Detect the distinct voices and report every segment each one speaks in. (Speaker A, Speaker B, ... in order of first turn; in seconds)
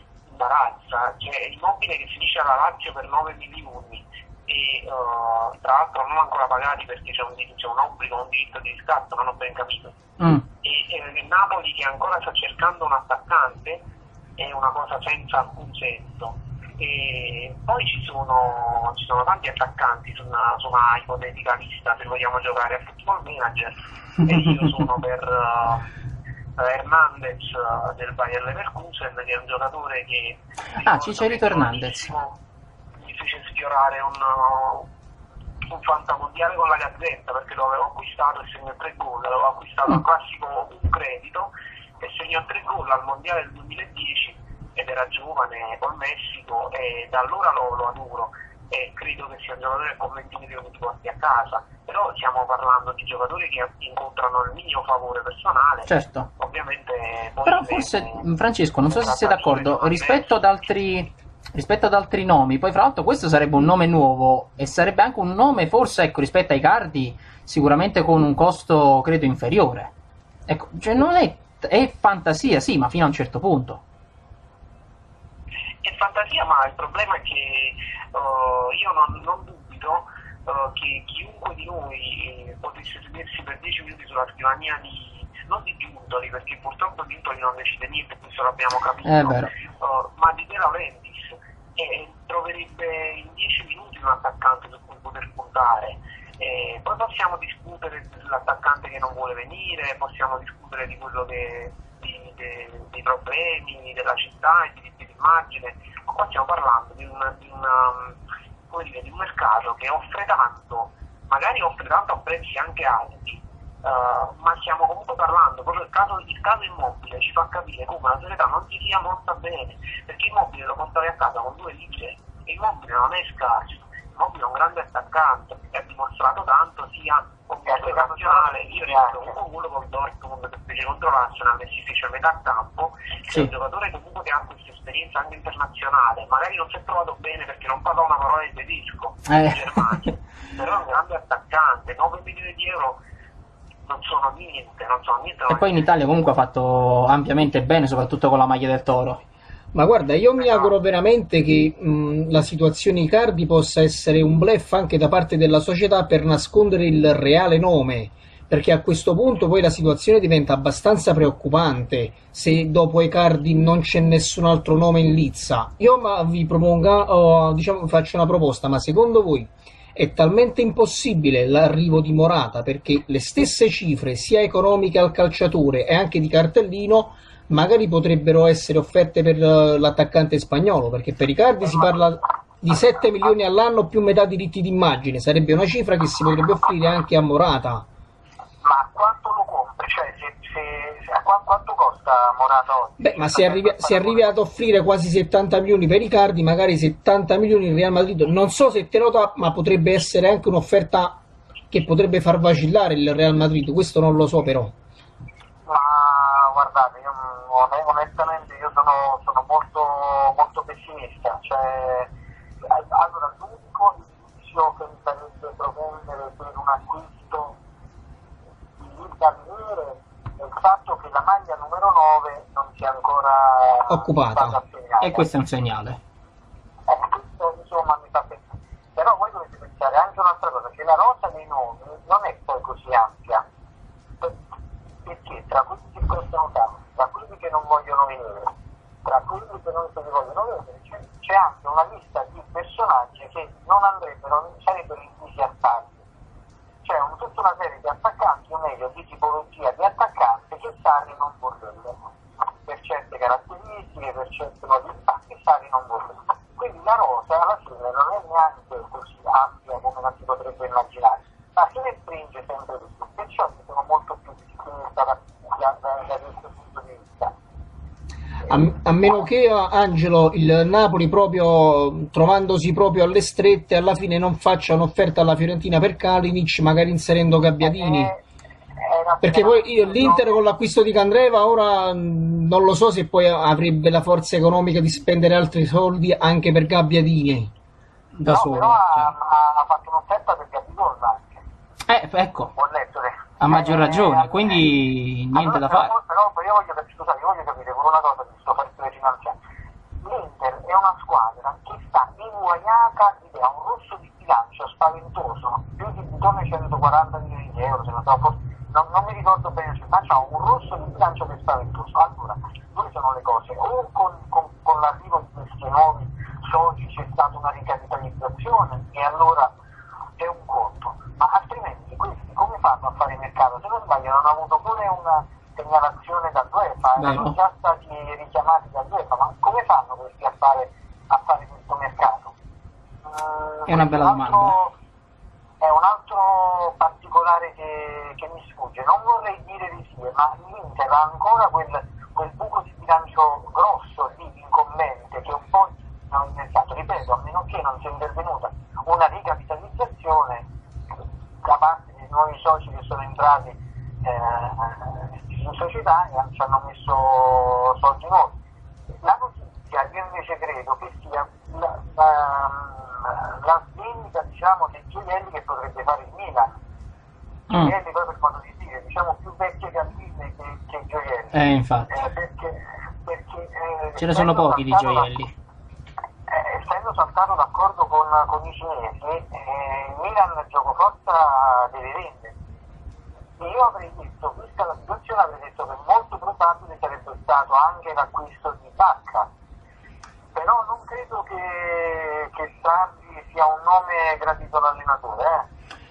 Speaker A: 0.3-9.9, 10.6-13.8, 14.4-25.9, 26.6-32.4, 33.0-34.9, 35.7-41.5, 42.0-58.2, 58.9-60.4, 75.8-108.2, 108.7-143.0, 143.8-145.8
Speaker B: 10.2-10.4, 30.8-32.1, 55.9-56.3, 57.4-69.9, 70.5-73.8, 89.0-89.5, 139.3-140.0, 145.5-149.2, 225.0-226.0, 288.1-289.1, 291.9-292.5, 293.4-295.9, 327.0-327.3, 333.7-334.6, 367.5-367.7, 371.3-371.9, 374.0-375.3
Speaker C: 127.7-129.3, 188.6-194.3, 205.7-212.1, 212.7-217.6, 218.8-225.3, 226.9-233.4, 235.0-238.5, 239.0-246.0, 246.8-252.0, 252.6-267.3, 277.6-278.2, 278.8-280.4, 288.3-291.4, 292.5-294.6, 295.3-299.4, 300.0-319.5, 320.2-332.3, 333.0-334.7, 335.6-350.5, 351.4-358.4, 359.0-366.6, 367.5-375.1, 376.3-382.3, 383.4-389.3, 390.3-395.4
Speaker D: 149.7-187.8, 193.0-201.2, 201.7-204.7, 223.9-224.6, 268.5-278.1, 279.2-287.5